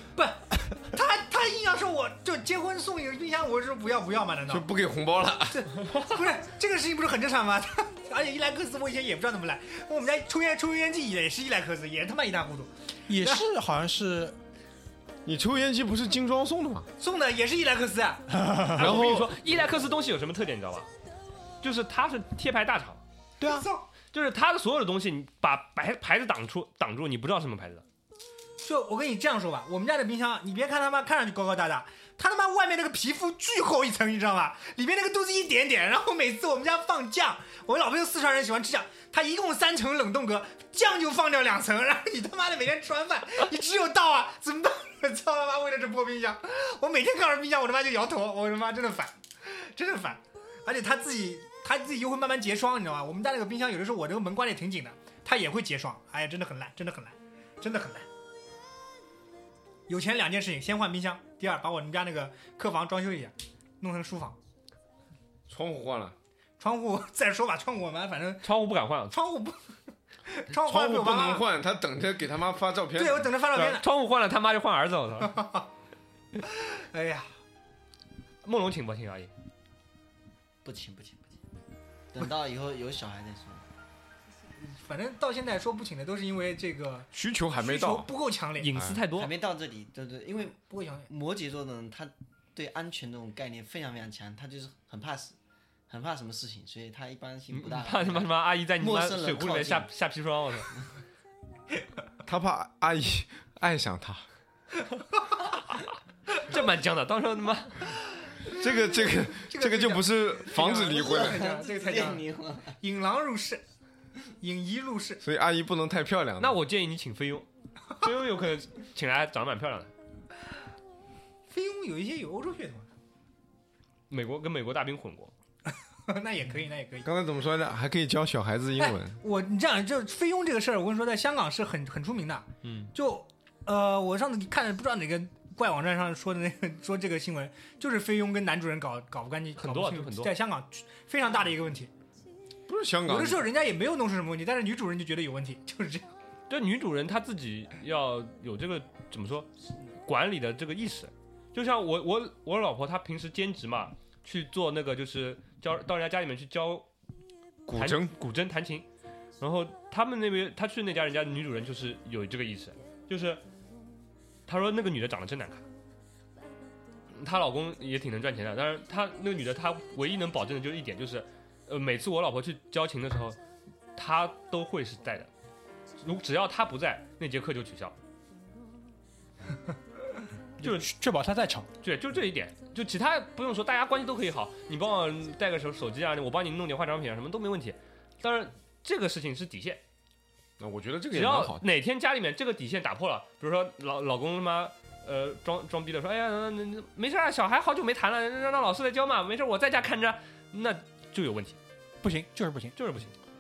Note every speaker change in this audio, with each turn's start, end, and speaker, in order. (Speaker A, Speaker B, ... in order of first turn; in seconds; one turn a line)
Speaker A: 0.1-4.7
Speaker B: 4.5-5.7
Speaker A: 5.5-13.4
Speaker C: 13.1-14.4
Speaker B: 15.2-16.9
Speaker A: 17.0-18.5
Speaker C: 18.3-19.0
Speaker D: 18.7-20.9
Speaker B: 18.8-19.4
Speaker D: 21.6-23.0
Speaker C: 23.4-23.7
Speaker A: 23.4-23.9
Speaker D: 24.1-27.8
Speaker A: 28.6-58.1
Speaker A: 59.9-64.4
Speaker B: 65.5-66.2
Speaker A: 66.6-68.5
Speaker D: 68.4-69.1
Speaker A: 69.1-69.6
Speaker A: 70.3-71.5
Speaker B: 70.5-73.3
Speaker A: 72.9-73.8
Speaker D: 73.5-75.4
Speaker A: 75.3-75.7
Speaker A: 76.5-77.3
Speaker D: 78.4-79.3
Speaker E: 80.6-81.3
Speaker E: 82.1-83.6
Speaker A: 84.6-88.7
Speaker B: 87.1-88.1
Speaker D: 88.6-89.3
Speaker B: 88.7-89.0
Speaker E: 89.1-95.3
Speaker A: 90.7-91.1
Speaker E: 95.9-99.9
Speaker D: 97.5-100.7
Speaker B: 102.2-104.2
Speaker D: 106.4-107.9
Speaker A: 108.4-113.6
Speaker B: 108.5-111.4
Speaker E: 111.2-112.8
Speaker A: 114.4-115.2
Speaker B: 115.2-116.6
Speaker D: 116.4-119.9
Speaker A: 121.5-122.9
Speaker D: 124.1-125.3
Speaker A: 126.1-127.1
Speaker B: 127.0-129.2
Speaker A: 128.8-141.9
Speaker D: 132.6-132.9
Speaker D: 139.6-140.3
Speaker B: 142.7-143.5
Speaker A: 143.1-146.1
Speaker D: 146.5-156.9
Speaker B: 157.7-158.1
Speaker D: 157.7-158.8
Speaker D: 159.4-163.4
Speaker D: 164.5-165.7
Speaker D: 167.1-173.4
Speaker D: 173.9-175.3
Speaker D: 176.0-177.9
Speaker D: 180.6-180.9
Speaker C: 180.6-181.7
Speaker D: 181.8-189.8
Speaker B: 190.6-191.6
Speaker D: 191.1-201.6
Speaker C: 202.0-202.7
Speaker D: 202.8-203.1